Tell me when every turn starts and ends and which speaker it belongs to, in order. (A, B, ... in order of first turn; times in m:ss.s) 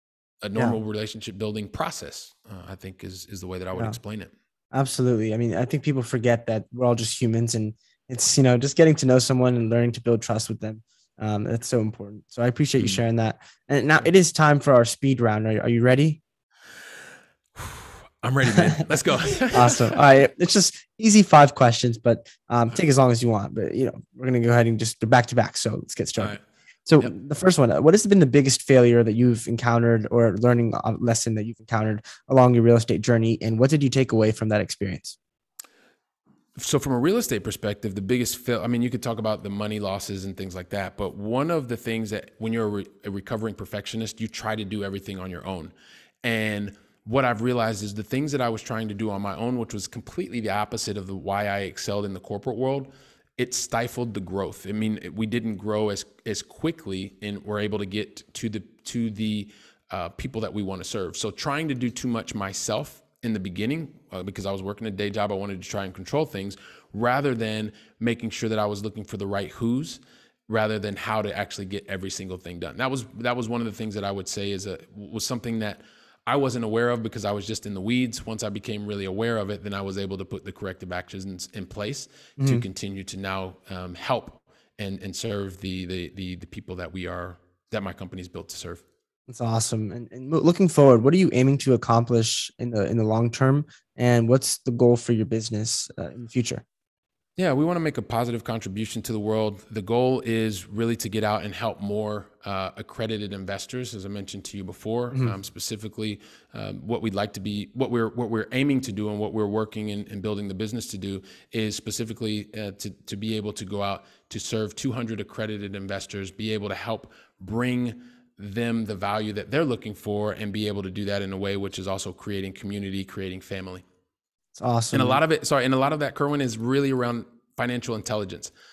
0:00.4-0:04.3 A
0:04.7-0:16.2 B
0:17.6-0:20.0 A
0:18.6-0:18.8 B
0:19.5-0:35.2 B
0:36.6-1:28.8 A
1:22.4-1:22.6 B
1:29.3-1:36.6 B
1:37.4-2:03.8 A
2:04.6-2:05.2 B
2:04.9-2:08.5 A